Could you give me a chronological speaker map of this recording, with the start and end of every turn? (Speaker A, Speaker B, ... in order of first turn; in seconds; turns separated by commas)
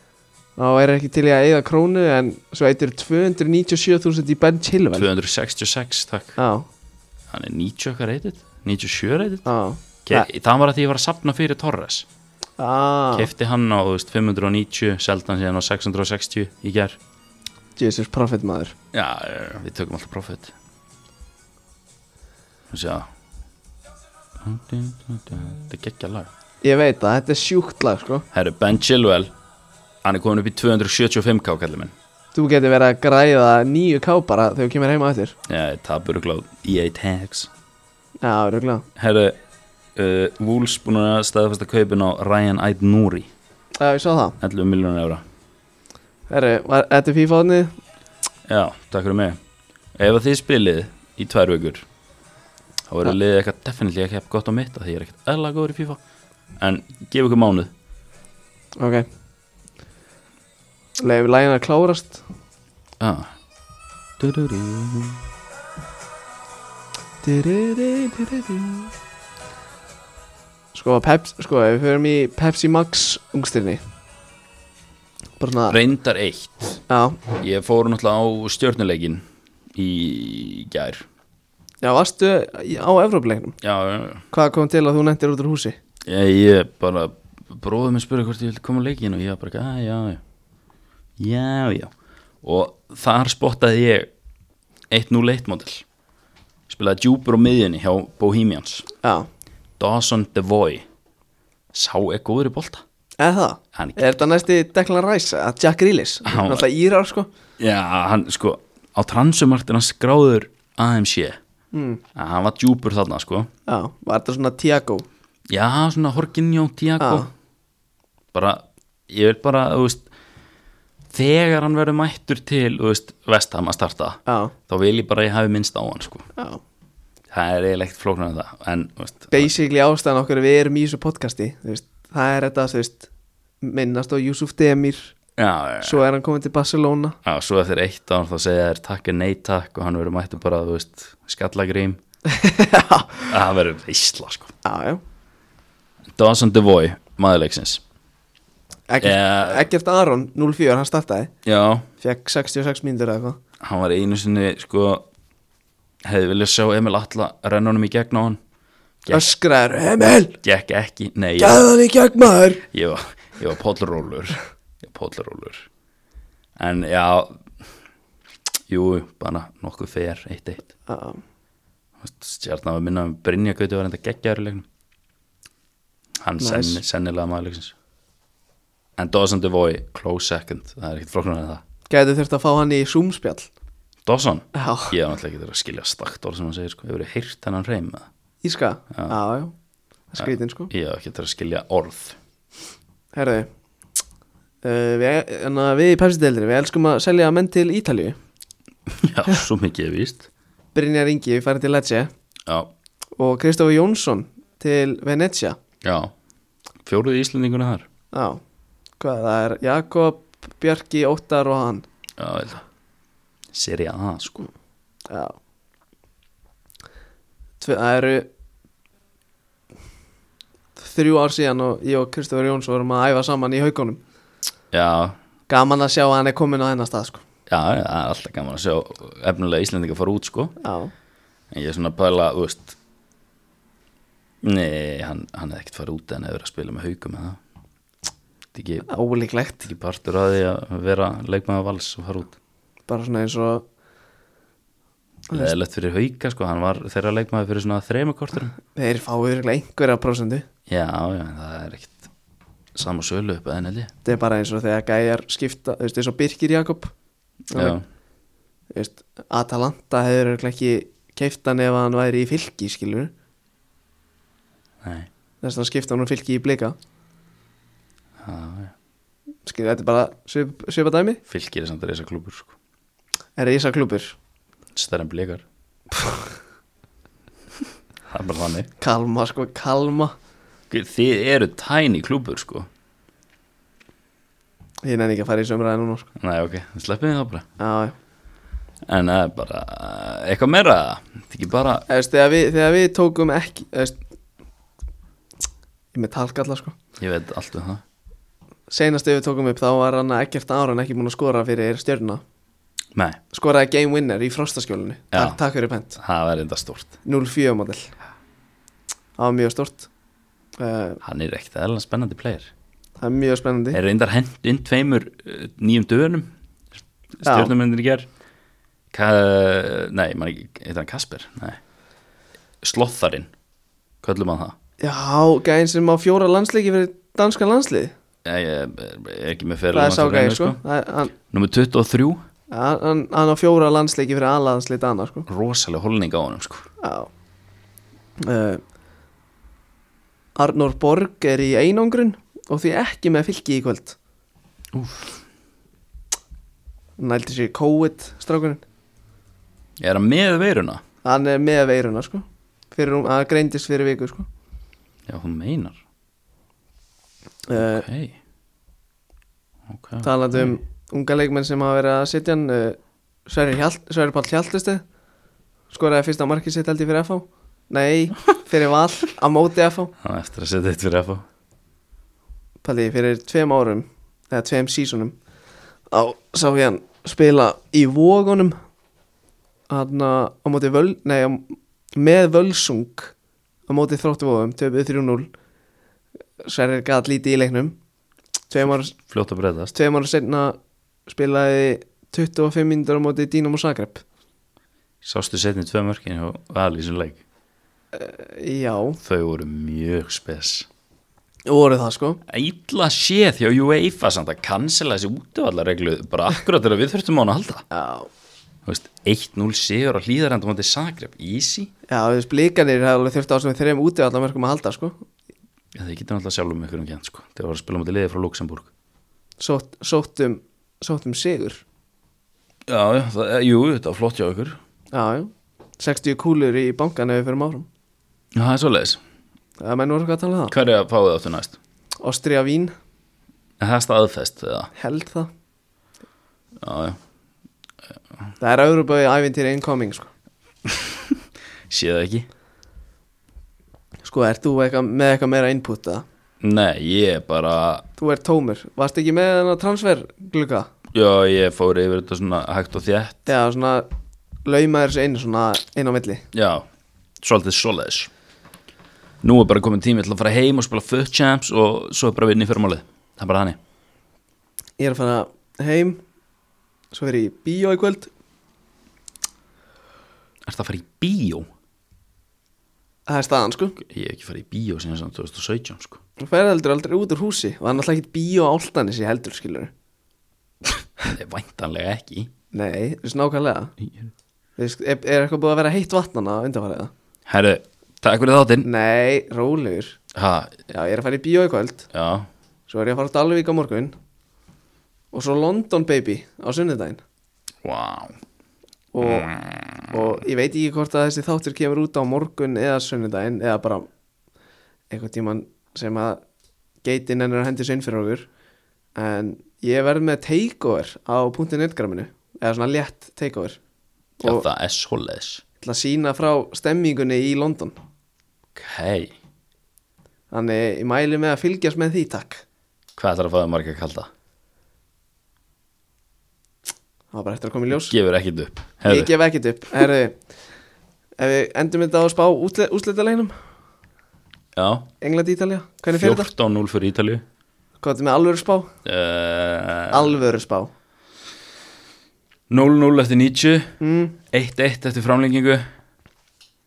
Speaker A: 0.6-5.1, Speaker B: 4.9-6.4, Speaker A: 6.4-6.7, Speaker B: 7.3-9.4, Speaker A: 9.4-10.3, Speaker B: 10.0-12.1, Speaker A: 12.6-13.3, Speaker B: 13.1-17.0, Speaker A: 17.8-18.7, Speaker B: 18.9-20.5, Speaker B: 22.7-23.1, Speaker B: 24.4-26.3, Speaker A: 26.6-28.2, Speaker B: 28.3-29.3, Speaker B: 30.0-31.9, Speaker A: 32.3-35.3, Speaker B: 35.5-37.5, Speaker A: 38.2-38.9, Speaker B: 39.0-39.4, Speaker B: 40.0-43.3, Speaker A: 43.8-44.4, Speaker B: 44.4-45.2, Speaker A: 46.3-47.7, Speaker B: 48.5-49.4, Speaker B: 49.9-51.8, Speaker B: 52.9-56.0, Speaker B: 56.6-57.7, Speaker A: 58.8-59.0, Speaker A: 61.0-62.2, Speaker B: 63.0-63.3, Speaker B: 64.2-65.2, Speaker A: 67.2-68.9, Speaker A: 70.7-73.8, Speaker A: 75.4-75.8, Speaker B: 75.7-76.8, Speaker A: 76.9-77.2, Speaker B: 77.4-81.0, Speaker A: 81.8-83.6, Speaker B: 83.6-84.2, Speaker A: 84.3-85.8, Speaker B: 86.0-90.2, Speaker B: 91.2-91.9, Speaker B: 92.4-94.1, Speaker B: 94.9-95.8, Speaker B: 96.7-98.9, Speaker A: 99.0-99.3, Speaker B: 99.8-100.8, Speaker B: 101.7-102.8, Speaker A: 103.2-107.3, Speaker B: 103.7-104.2, Speaker B: 106.2-106.7, Speaker B: 107.6-111.4, Speaker A: 111.7-112.0, Speaker B: 112.1-113.5, Speaker A: 113.7-115.0, Speaker B: 115.5-117.3, Speaker A: 117.0-117.3, Speaker B: 118.3-120.1, Speaker B: 121.1-126.3, Speaker A: 124.3-124.5, Speaker B: 127.3-129.5, Speaker A: 129.3-133.1, Speaker A: 133.6-135.1, Speaker B: 135.4-136.0, Speaker A: 135.8-137.2, Speaker B: 137.2-142.0, Speaker A: 142.3-143.3, Speaker B: 143.3-144.5, Speaker A: 144.6-145.0, Speaker B: 146.1-147.8, Speaker A: 148.9-151.3, Speaker B: 149.0-149.6, Speaker B: 151.4-151.9, Speaker A: 152.0-153.4, Speaker B: 153.6-155.1, Speaker B: 156.0-158.4, Speaker A: 159.1-160.4, Speaker B: 160.4-161.7, Speaker A: 161.4-162.6, Speaker B: 162.7-165.7, Speaker B: 166.6-167.4, Speaker B: 168.7-170.6, Speaker A: 170.9-171.2, Speaker B: 172.0-174.7, Speaker B: 176.2-177.7, Speaker A: 176.4-176.8, Speaker B: 179.0-181.6, Speaker A: 181.9-183.5, Speaker B: 184.1-188.1, Speaker A: 184.5-184.9, Speaker A: 188.4-189.5, Speaker A: 190.1-190.7, Speaker B: 190.2-192.2, Speaker A: 193.1-193.5, Speaker A: 194.6-198.2, Speaker B: 198.9-200.3, Speaker A: 200.7-202.1, Speaker B: 202.5-202.7, Speaker A: 203.2-205.6, Speaker B: 205.8-206.1, Speaker B: 206.8-207.9, Speaker A: 208.1-208.4, Speaker A: 209.0-211.8, Speaker B: 212.2-212.6, Speaker B: 213.5-214.5, Speaker A: 215.1-215.3, Speaker A: 217.6-218.3, Speaker A: 220.8-224.0, Speaker B: 224.7-225.2, Speaker A: 225.5-227.2, Speaker B: 227.5-230.6, Speaker A: 230.6-230.9, Speaker B: 231.5-232.8, Speaker B: 234.4-237.4, Speaker B: 238.5-238.8, Speaker A: 238.8-239.7, Speaker B: 239.6-242.3, Speaker A: 242.9-243.6, Speaker B: 245.3-248.5, Speaker A: 248.7-250.4, Speaker B: 250.7-252.1, Speaker B: 252.7-253.9, Speaker A: 254.0-256.9, Speaker A: 257.5-257.8, Speaker B: 257.5-257.8, Speaker A: 258.7-263.1, Speaker B: 264.8-265.1, Speaker A: 265.4-266.7, Speaker B: 268.2-268.7, Speaker A: 269.4-271.2, Speaker B: 271.3-272.5, Speaker A: 273.4-274.1, Speaker B: 274.7-275.4, Speaker A: 275.9-276.3, Speaker B: 278.1-278.7, Speaker A: 278.8-280.1, Speaker B: 280.7-282.7, Speaker A: 284.8-286.1, Speaker B: 286.2-287.4, Speaker A: 287.6-287.9, Speaker B: 288.9-291.9, Speaker A: 291.9-294.0, Speaker A: 295.9-296.7, Speaker B: 297.0-297.8, Speaker A: 298.7-302.2, Speaker B: 302.9-303.2, Speaker A: 303.3-306.0, Speaker B: 305.9-306.9, Speaker A: 307.0-307.9, Speaker A: 309.2-309.9, Speaker A: 310.6-311.0, Speaker B: 311.0-312.5, Speaker A: 313.0-313.8, Speaker B: 313.7-316.3, Speaker B: 317.2-318.1, Speaker A: 317.2-317.5, Speaker B: 318.9-321.6, Speaker B: 322.6-323.3, Speaker B: 324.0-324.6, Speaker A: 324.8-327.9, Speaker B: 328.2-330.6, Speaker A: 329.7-331.1, Speaker B: 331.3-332.2, Speaker A: 332.5-335.3, Speaker B: 335.3-336.6, Speaker A: 336.8-337.1, Speaker A: 338.2-338.6, Speaker A: 340.4-344.0, Speaker B: 344.7-345.2, Speaker A: 347.0-348.6, Speaker B: 349.8-350.8, Speaker A: 351.0-354.2, Speaker B: 355.1-355.8, Speaker A: 357.5-357.8, Speaker B: 357.5-358.1, Speaker B: 359.7-360.6, Speaker A: 360.0-364.8, Speaker A: 365.7-369.9, Speaker B: 370.0-371.2, Speaker A: 372.6-375.1, Speaker A: 375.9-378.6, Speaker A: 379.7-383.1, Speaker A: 383.7-385.3, Speaker A: 386.4-387.8, Speaker A: 388.5-388.9, Speaker B: 388.9-389.7, Speaker A: 389.7-390.6, Speaker A: 391.1-394.0, Speaker B: 395.0-397.2, Speaker A: 397.9-399.0, Speaker B: 399.0-400.7, Speaker A: 401.4-402.2, Speaker B: 402.3-407.6, Speaker A: 407.7-408.1, Speaker B: 408.6-411.7, Speaker A: 411.9-415.0, Speaker B: 415.7-418.7, Speaker A: 419.4-421.6, Speaker B: 422.7-424.6, Speaker A: 424.9-427.7, Speaker B: 428.3-429.0, Speaker A: 429.6-430.5, Speaker B: 430.5-431.6, Speaker A: 432.0-432.7, Speaker B: 433.6-434.7, Speaker A: 434.7-435.3, Speaker B: 436.6-437.0, Speaker A: 438.4-440.1, Speaker B: 440.6-442.3, Speaker A: 444.0-446.0, Speaker B: 446.4-447.9, Speaker A: 448.0-450.7, Speaker B: 450.9-453.2, Speaker A: 453.2-453.9, Speaker A: 454.4-456.2, Speaker B: 456.3-456.6, Speaker B: 457.2-458.1, Speaker B: 459.2-463.6, Speaker A: 464.8-466.0, Speaker A: 466.9-468.1, Speaker B: 470.4-471.5, Speaker A: 473.1-473.8, Speaker B: 473.8-476.0, Speaker A: 476.2-479.7, Speaker B: 481.0-482.3, Speaker A: 482.5-483.7, Speaker A: 484.6-486.9, Speaker B: 487.2-488.7, Speaker A: 488.6-490.0, Speaker B: 490.1-490.6, Speaker A: 490.7-491.9, Speaker B: 491.9-492.3, Speaker A: 492.7-493.9, Speaker A: 495.1-497.0, Speaker B: 497.6-498.1, Speaker A: 498.9-499.3, Speaker B: 499.0-500.1, Speaker A: 499.9-503.9, Speaker A: 504.9-506.2, Speaker A: 506.8-508.3, Speaker A: 508.9-513.6, Speaker B: 514.2-515.4, Speaker A: 515.6-517.8, Speaker B: 518.5-519.1, Speaker A: 520.3-522.4, Speaker B: 523.0-524.1, Speaker A: 527.1-527.9, Speaker B: 527.8-529.1, Speaker A: 528.9-530.2, Speaker A: 531.2-533.3, Speaker B: 534.5-534.9, Speaker A: 535.0-536.3, Speaker B: 535.9-537.2, Speaker A: 537.8-538.7, Speaker B: 538.8-540.2, Speaker A: 539.9-540.7, Speaker B: 542.5-543.8, Speaker A: 543.8-544.2, Speaker B: 544.3-545.6